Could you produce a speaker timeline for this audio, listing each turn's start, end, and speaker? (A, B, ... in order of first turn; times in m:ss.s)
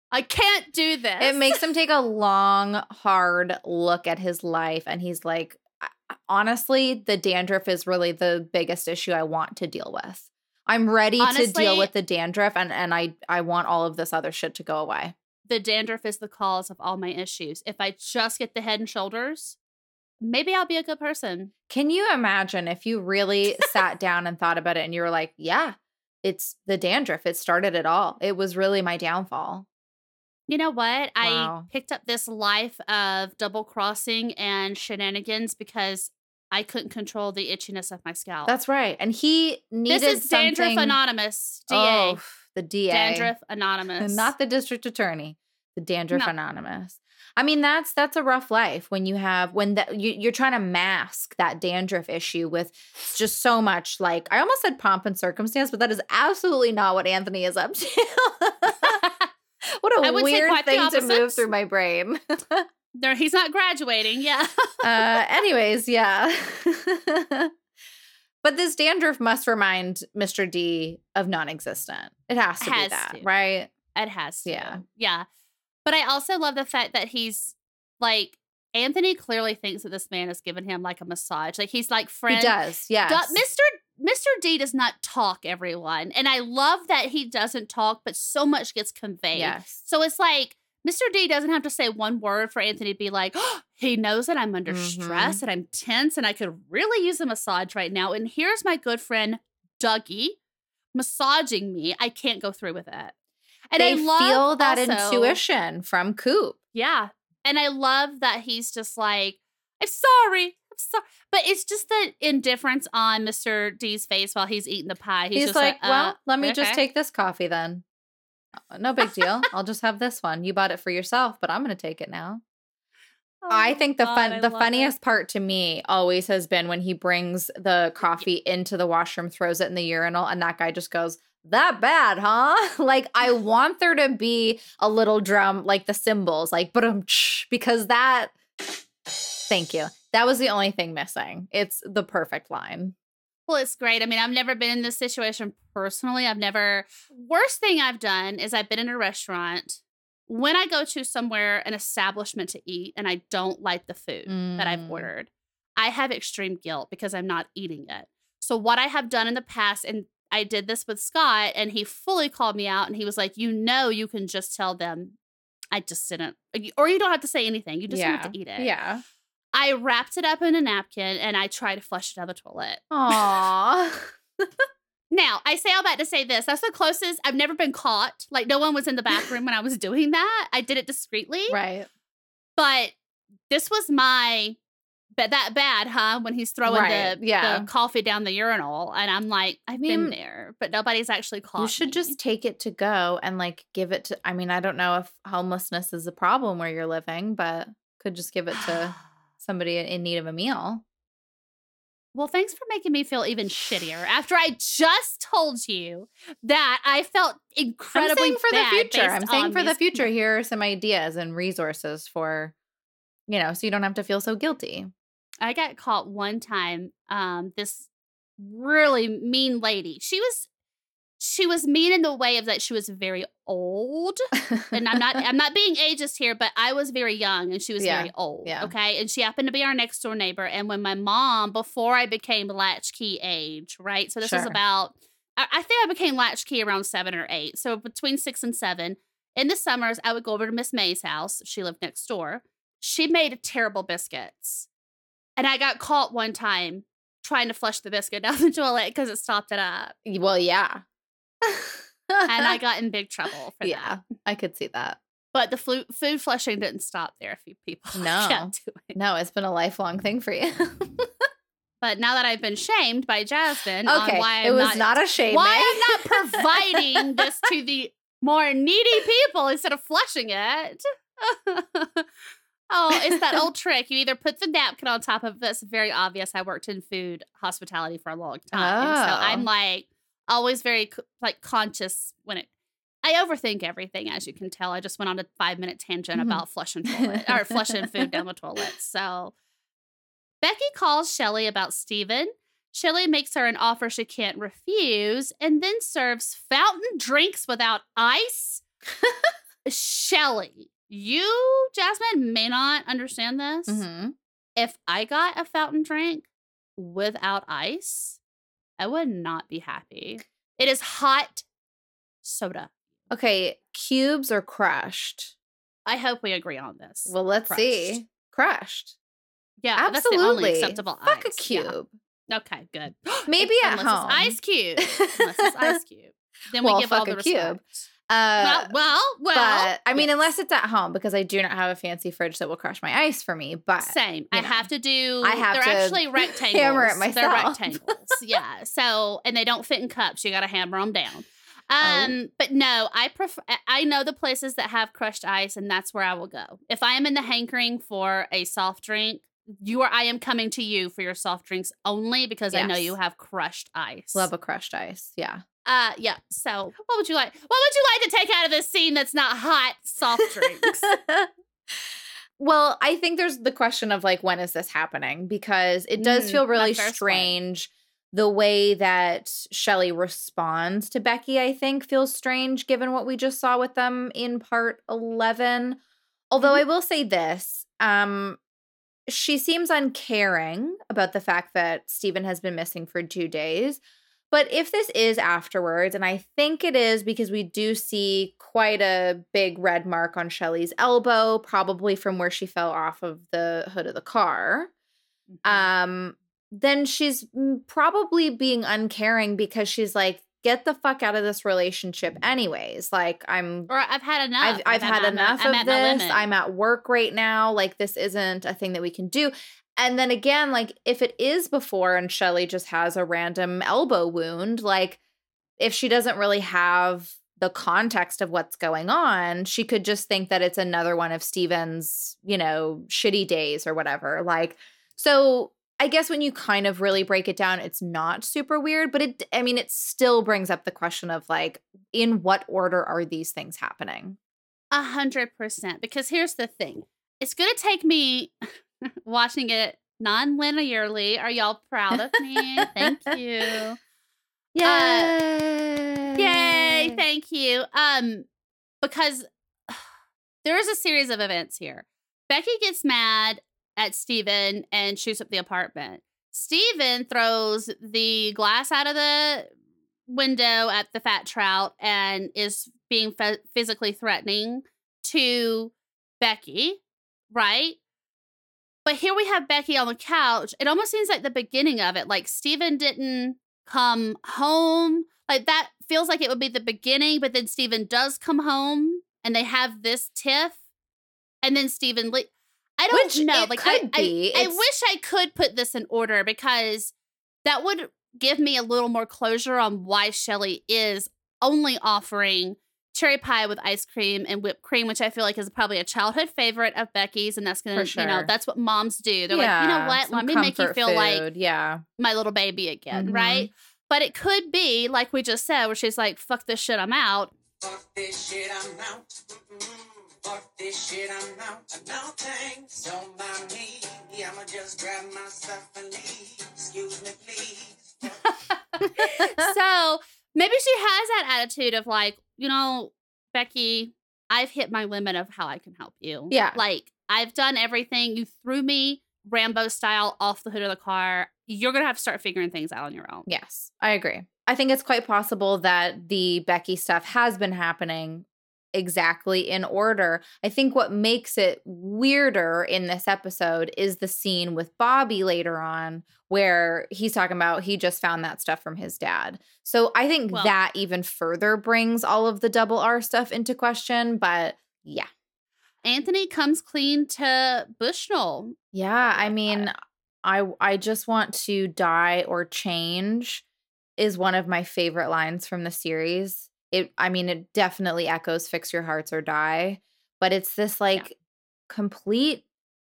0:00.1-0:01.6 A
0:01.2-0:15.2 B
0:11.2-0:11.9 A
0:15.5-0:19.6 A
0:20.2-0:21.5 A
0:21.7-0:29.7 B
0:30.5-0:38.5 A
0:31.2-0:31.7 B
0:38.5-0:41.0 B
0:39.9-0:42.2 A
0:41.7-0:43.3 B
0:42.9-0:44.3 A
0:44.0-0:59.0 B
0:58.8-0:59.1 A
0:59.7-1:02.7 B
1:00.0-1:01.5 A
1:02.9-1:05.2 A
1:04.8-1:07.5 B
1:08.4-1:13.7 B
1:12.6-1:13.3 A
1:13.9-1:15.3 A
1:14.5-1:14.8 B
1:15.8-1:40.4 A
1:22.3-1:23.4 B
1:29.4-1:29.8 B
1:34.7-1:35.4 B
1:40.9-1:43.1 A
1:43.7-1:45.4 A
1:43.8-1:46.6 B
1:46.7-1:56.8 A
1:55.4-1:57.8 B
1:58.6-2:02.4 B
2:03.4-2:04.9 A
2:03.5-2:18.4 B
2:19.5-2:23.0 B
2:23.5-2:45.2 A
2:34.3-2:35.1 B
2:45.7-2:48.7 A
2:47.9-2:49.0 B
2:49.5-2:53.2 A
2:52.9-2:54.7 B
2:55.1-3:01.6 A
3:01.5-3:01.9 B
3:02.6-3:03.0 A
3:03.5-3:04.6 A
3:05.2-3:12.2 A
3:06.7-3:07.7 B
3:09.8-3:10.2 B
3:11.6-3:20.8 B
3:18.5-3:19.0 A
3:22.1-3:30.1 A
3:27.9-3:32.6 B
3:33.3-3:34.9 B
3:35.4-3:37.9 A
3:38.4-3:40.5 A
3:41.2-4:04.7 A
3:47.8-3:48.7 B
3:54.2-3:54.6 B
4:05.4-4:10.0 A
4:10.0-4:10.8 B
4:11.4-4:12.6 B
4:12.3-4:14.0 A
4:13.6-4:15.0 B
4:15.3-4:19.0 A
4:18.0-4:21.3 B
4:21.8-4:32.1 A
4:23.9-4:27.2 B
4:32.7-4:42.5 A
4:32.9-4:33.4 B
4:38.5-4:39.5 B
4:43.0-4:49.3 A
4:46.2-4:46.4 B
4:47.0-4:48.1 B
4:50.4-4:58.6 A
4:59.0-4:59.3 B
4:59.7-5:03.8 A
5:03.7-5:04.2 B
5:04.6-5:06.3 A
5:06.8-5:08.2 A
5:08.8-5:11.5 A
5:12.2-5:12.7 A
5:13.1-5:15.3 B
5:15.9-5:18.0 A
5:17.1-5:19.0 B
5:19.6-5:21.8 A
5:19.8-5:21.9 B
5:22.3-5:27.9 A
5:23.3-5:25.8 B
5:26.6-5:28.7 B
5:28.4-5:30.1 A
5:29.3-5:34.7 B
5:33.8-5:54.3 A
5:35.2-5:38.1 B
5:41.8-5:42.1 B
5:52.5-5:52.9 B
5:54.2-5:55.4 B
5:55.6-6:00.9 A
6:00.8-6:01.3 B
6:02.4-6:15.8 B
6:06.0-6:07.4 A
6:16.3-6:18.4 B
6:19.1-6:23.8 B
6:24.3-6:34.7 B
6:35.3-6:35.7 A
6:35.4-6:43.7 B
6:43.7-6:46.3 A
6:44.4-6:55.0 B
6:55.6-7:14.2 B
7:14.7-7:18.5 A
7:19.0-7:23.8 A
7:22.4-7:23.1 B
7:24.5-7:25.2 A
7:24.6-7:27.0 B
7:26.2-7:28.3 A
7:28.8-7:29.8 A
7:30.4-7:39.5 A
7:40.1-7:46.8 A
7:47.3-7:47.8 A
7:48.8-8:00.6 A
8:01.4-8:06.9 A
8:02.9-8:04.6 B
8:07.4-8:21.2 A
8:17.8-8:18.3 B
8:19.3-8:21.8 B
8:22.0-8:27.3 A
8:22.9-8:23.5 B
8:27.6-8:38.4 C
8:38.8-8:53.3 A
8:39.0-8:39.5 B
8:46.3-8:46.6 B
8:53.3-9:15.1 B
9:15.8-9:19.7 A
9:18.7-9:23.4 B
9:24.0-9:31.2 B
9:31.7-9:32.4 B